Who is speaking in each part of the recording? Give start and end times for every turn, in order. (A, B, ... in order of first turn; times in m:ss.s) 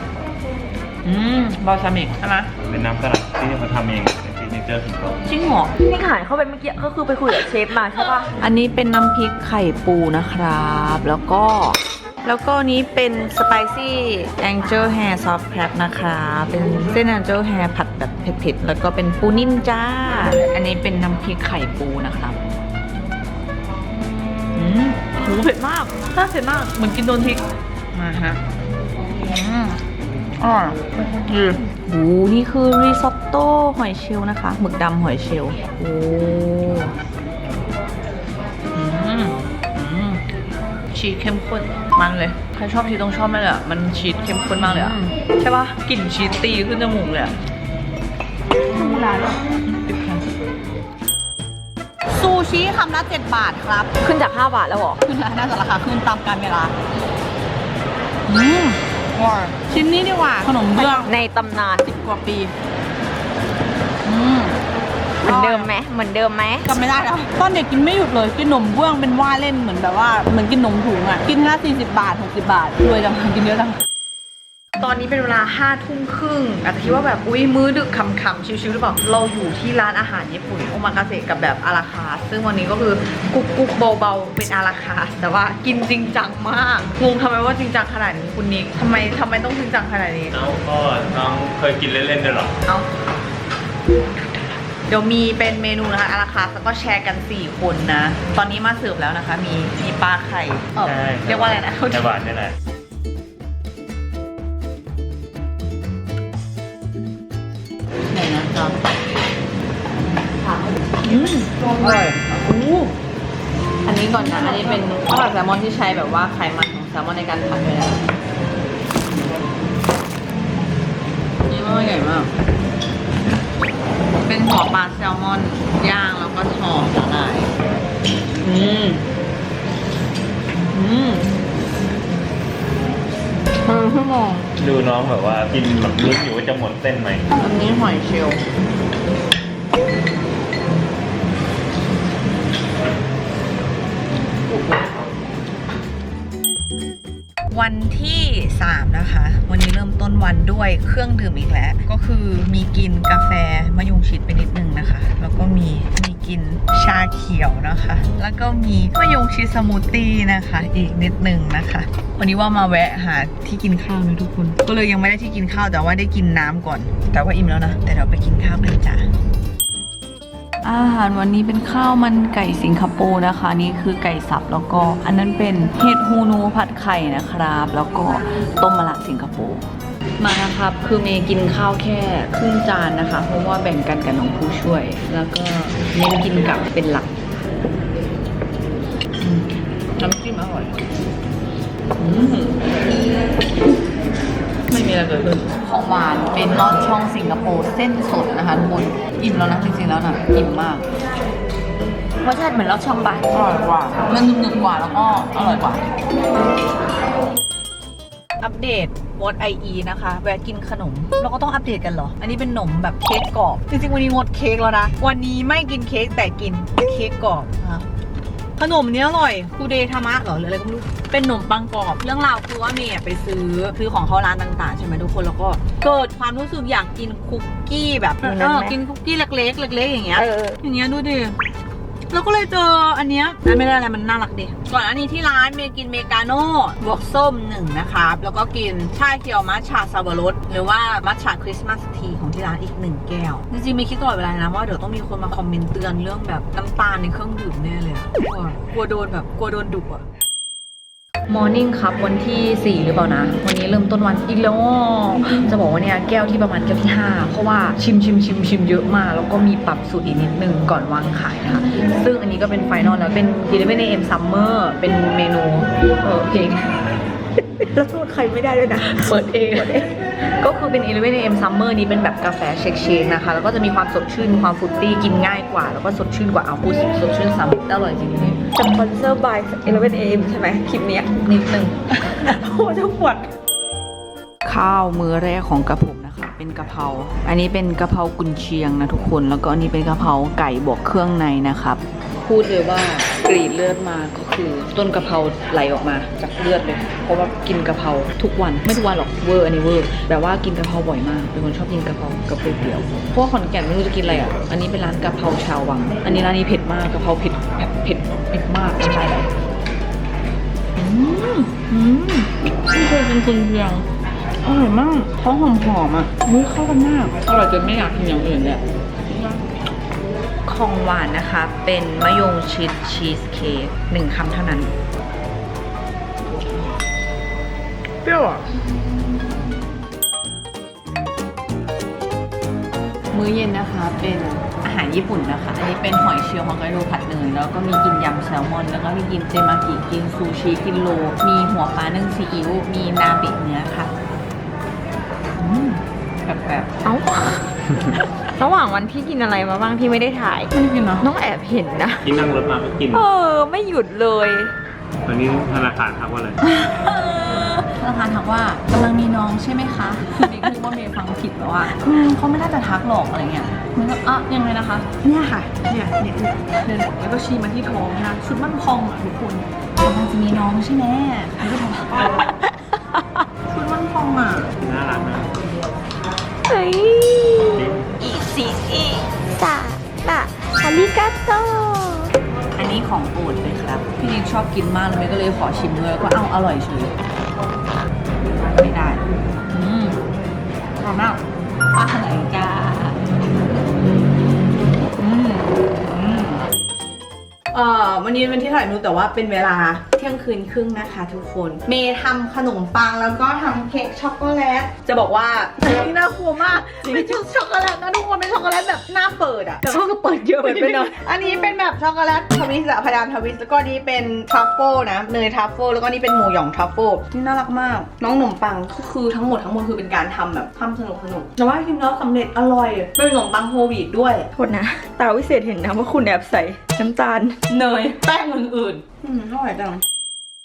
0:01.0-0:02.5 A
0:02.7-0:05.2 B
0:05.2-0:05.7 A
0:05.8-0:08.3 C
0:08.4-0:22.4 A
0:24.6-0:28.4 A
0:29.2-0:29.8 A
0:30.4-0:36.9 A
0:38.7-0:40.2 A
0:40.9-0:47.4 A
0:44.6-0:45.0 C
0:48.7-0:50.3 A
0:52.1-0:54.0 A
0:54.0-0:55.0 C
0:55.0-0:56.7 A
0:58.3-1:01.2 A
1:00.8-1:01.9 C
1:01.8-1:02.5 A
1:04.0-1:04.6 A
1:05.2-1:05.7 A
1:05.2-1:06.7 C
1:06.7-1:13.8 A
1:14.8-1:30.4 A
1:30.3-1:32.5 B
1:34.9-1:42.1 A
1:40.8-1:42.6 B
1:48.1-1:48.8 A
1:51.0-1:52.9 A
1:53.8-1:58.0 A
2:01.5-2:02.3 A
2:04.3-2:07.5 A
2:08.4-2:09.0 A
2:10.7-2:11.4 A
2:13.7-2:14.5 A
2:14.6-2:17.3 B
2:17.4-2:18.4 A
2:24.5-2:24.9 A
2:27.5-2:49.1 A
2:50.6-2:59.7 A
3:00.2-3:07.1 A
3:09.2-3:10.8 A
3:12.0-3:12.8 A
3:14.7-3:20.9 A
3:22.2-3:23.3 C
3:23.3-3:25.8 A
3:28.4-3:37.9 A
3:38.6-3:51.4 A
3:48.2-3:48.8 C
3:50.2-3:50.6 C
3:52.1-4:10.0 A
4:11.3-4:26.6 A
4:27.7-4:29.9 C
4:28.8-4:38.4 A
4:38.5-4:41.2 C
4:41.1-4:42.2 A
4:42.0-4:43.3 C
4:44.4-5:09.3 A
5:10.8-5:13.9 A
5:14.4-5:19.4 A
5:20.5-5:24.7 A
5:28.0-5:28.4 A
5:33.1-5:43.9 A
5:45.4-5:46.7 A
5:46.8-5:47.5 C
5:48.4-5:52.1 C
5:50.5-5:51.1 A
5:52.0-5:53.1 B
5:52.9-5:54.5 C
5:55.0-5:56.4 B
5:56.4-6:12.2 A
6:12.7-6:13.2 C
6:13.5-6:14.5 A
6:14.6-6:15.3 B
6:16.5-6:22.1 C
6:17.6-6:17.8 B
6:22.6-6:27.0 A
6:28.3-6:30.0 A
6:30.8-6:31.2 A
6:31.7-6:33.1 A
6:33.7-6:36.4 A
6:37.5-7:04.3 A
6:46.8-6:47.1 C
6:49.6-6:50.9 C
7:04.3-7:07.4 C
7:07.5-7:09.8 A